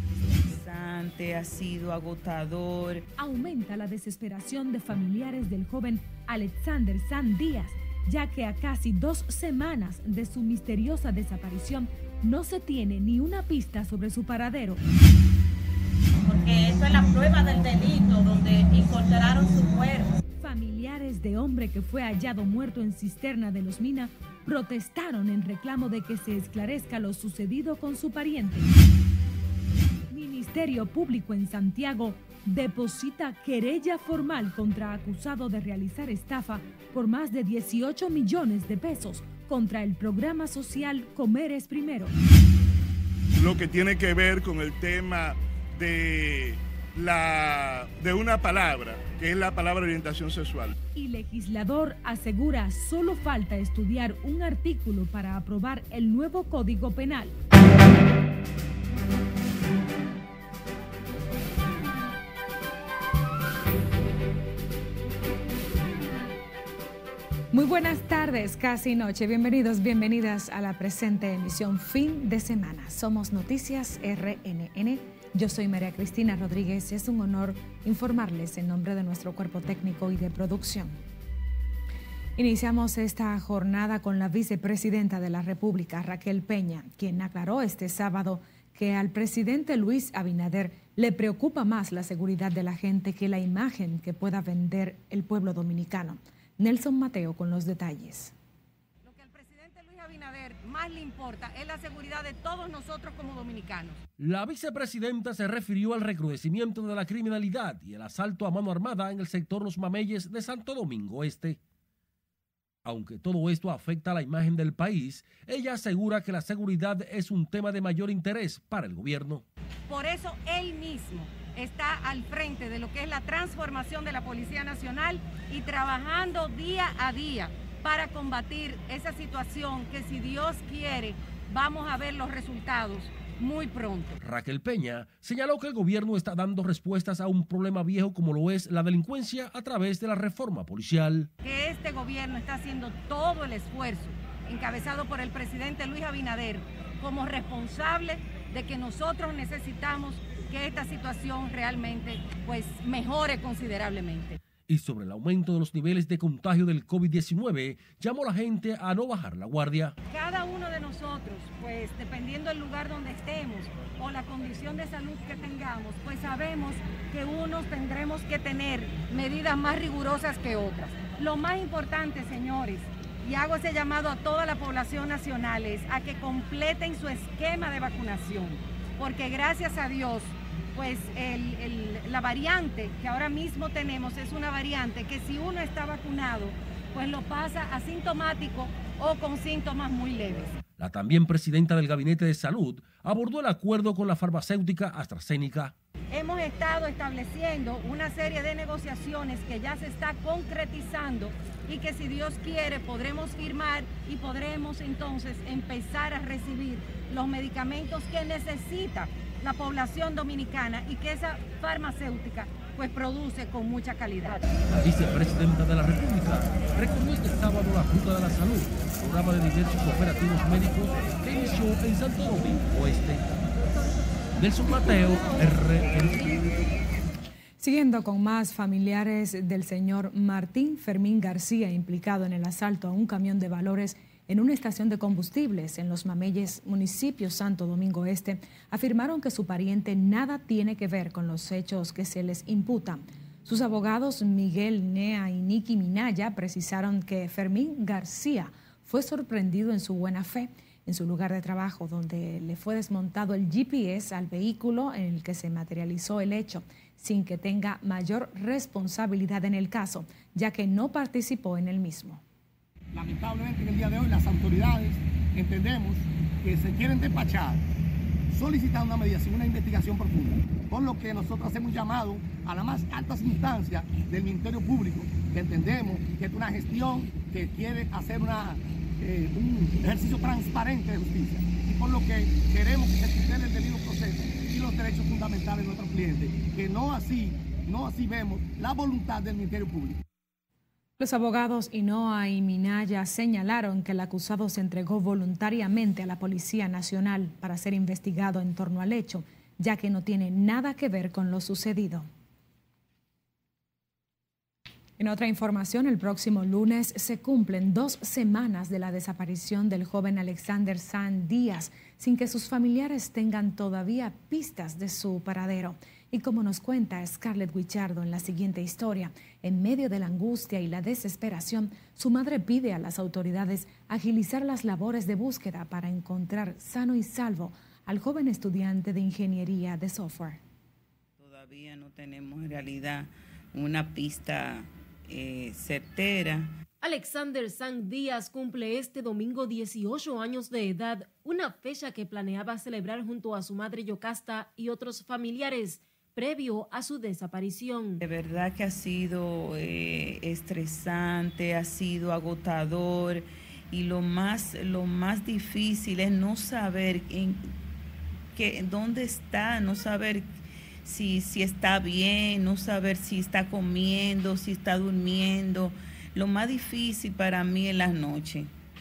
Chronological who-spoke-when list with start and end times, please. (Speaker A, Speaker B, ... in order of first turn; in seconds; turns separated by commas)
Speaker A: 0.1-3.0, Speaker B: 3.2-14.8, Speaker C: 16.2-20.1, Speaker B: 20.4-28.7, Speaker B: 30.1-42.1, Speaker D: 43.4-50.8, Speaker B: 51.0-57.3, Speaker B: 67.5-81.0, Speaker B: 82.4-98.3, Speaker E: 99.0-104.0, Speaker F: 104.2-111.6, Speaker F: 112.8-119.5, Speaker E: 119.9-134.2, Speaker F: 134.2-141.3, Speaker E: 141.4-154.4, Speaker F: 154.7-159.9, Speaker E: 160.1-190.6, Speaker F: 190.8-195.7, Speaker E: 196.1-214.4, Speaker F: 214.7-223.3, Speaker F: 224.4-226.5, Speaker B: 227.6-262.2, Speaker G: 262.9-267.6, Speaker G: 268.3-290.0, Speaker B: 291.0-302.1, Speaker B: 305.0-330.4, Speaker A: 331.2-336.5, Speaker H: 336.8-348.0, Speaker A: 348.0-357.5, Speaker A: 358.4-368.5